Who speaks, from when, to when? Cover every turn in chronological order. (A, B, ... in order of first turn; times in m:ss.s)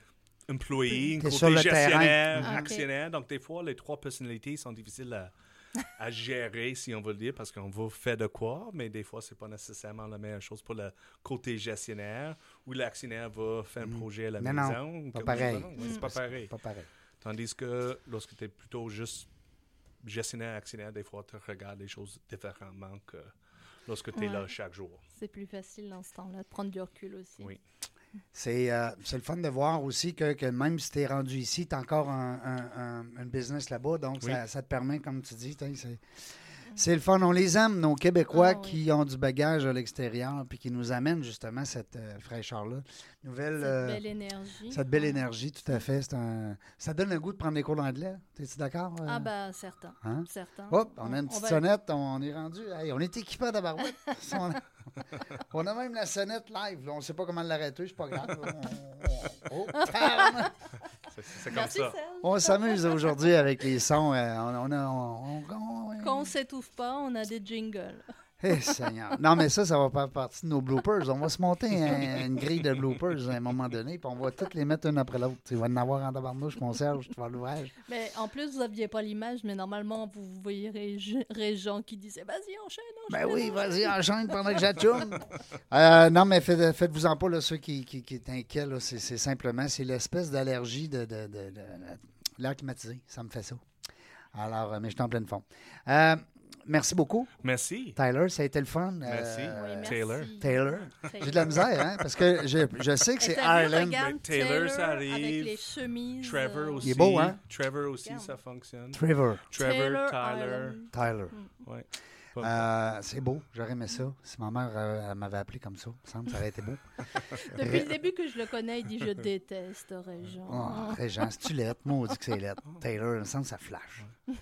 0:00.5-0:16.5 A
0:01.2-0:02.7 B
0:02.4-0:02.9 C
0:13.8-0:16.9 B
0:15.3-0:16.0 C
0:17.2-0:19.3 A
0:20.0-0:23.3 A
0:23.8-0:25.0 A
0:24.2-0:24.5 C
0:25.2-0:27.5 C
0:28.3-0:44.0 B
0:38.3-0:38.8 C
0:43.6-0:45.2 C
0:44.7-0:49.3 B
0:49.1-0:51.6 C
0:50.0-1:00.5 B
0:59.8-1:00.5 C
1:01.0-1:02.0 A
1:01.5-1:03.2 C
1:02.2-1:06.3 B
1:06.0-1:08.9 C
1:08.4-1:17.7 B
1:17.9-1:24.8 C
1:23.1-1:33.6 B
1:34.3-1:37.3 B
1:37.4-1:38.0 A
1:38.0-1:44.0 B
1:39.0-1:40.4 A
1:39.5-1:41.6 C
1:41.4-1:42.2 A
1:43.2-1:47.0 C
1:43.9-1:50.8 A
1:46.8-1:47.4 B
1:48.1-1:48.3 C
1:48.9-1:49.4 B
1:49.6-1:51.6 C
1:50.9-1:51.4 B
1:51.6-1:52.7 A
1:52.4-1:58.0 B
1:57.3-2:01.5 C
2:00.4-2:04.1 B